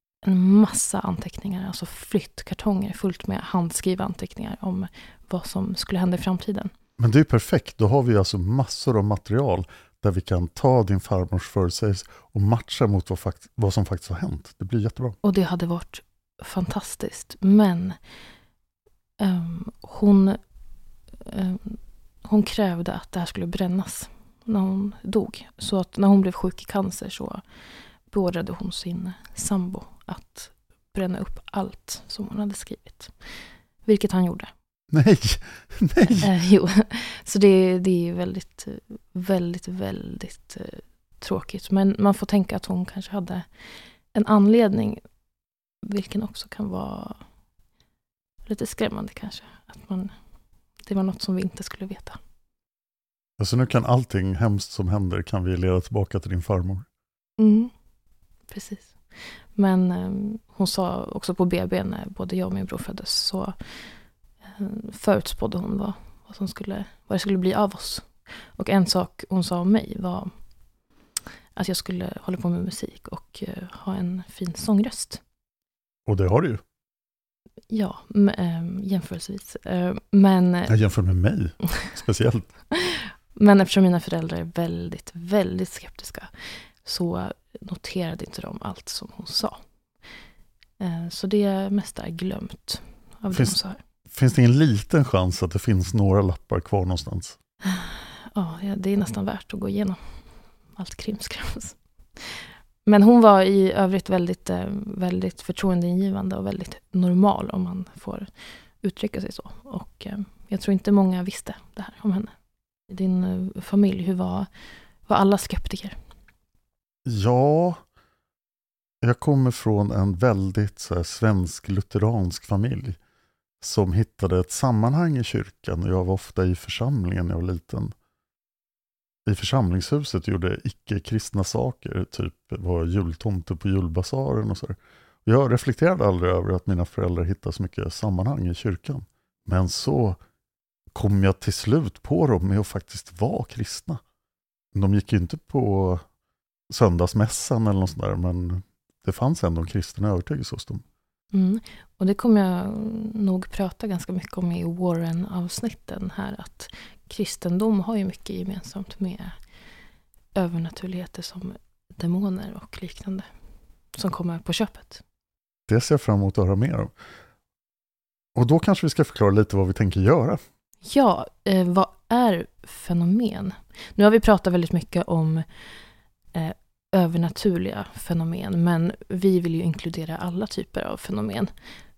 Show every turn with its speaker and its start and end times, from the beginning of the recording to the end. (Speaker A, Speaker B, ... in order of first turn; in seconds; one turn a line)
Speaker A: 0.2-6.7
Speaker B: 7.0-15.2
Speaker A: 15.2-18.0
Speaker A: 19.2-20.4
Speaker A: 21.2-27.4
Speaker A: 28.1-33.1
Speaker A: 33.8-34.5
Speaker B: 34.9-36.3
Speaker A: 36.1-43.5
Speaker A: 44.1-45.0
Speaker A: 45.8-47.2
Speaker A: 48.5-50.1
Speaker A: 50.8-52.2
Speaker B: 53.4-56.9
Speaker A: 57.4-57.7
Speaker A: 58.5-59.0
Speaker A: 59.5-63.6
Speaker A: 64.4-70.3
Speaker A: 71.5-75.2
Speaker B: 76.1-76.6
Speaker A: 77.7-80.8
Speaker B: 80.7-82.5
Speaker A: 82.8-86.3
Speaker A: 86.8-89.6
Speaker A: 90.8-93.8
Speaker B: 93.3-93.6
Speaker B: 94.1-97.3
Speaker A: 97.7-100.0
Speaker A: 100.7-108.3
Speaker A: 108.8-112.3
Speaker A: 112.9-114.5
Speaker A: 115.1-116.0
Speaker B: 117.1-117.8
Speaker B: 119.0-123.0
Speaker B: 123.6-127.9
Speaker B: 129.3-140.2
Speaker B: 140.9-144.0
Speaker B: 144.8-146.0
Speaker B: 146.7-150.8
Speaker A: 151.3-159.4
Speaker A: 160.3-163.3
Speaker A: 163.9-165.0
Speaker B: 165.7-166.9
Speaker B: 168.3-170.4
Speaker A: 170.8-175.5
Speaker A: 176.3-181.5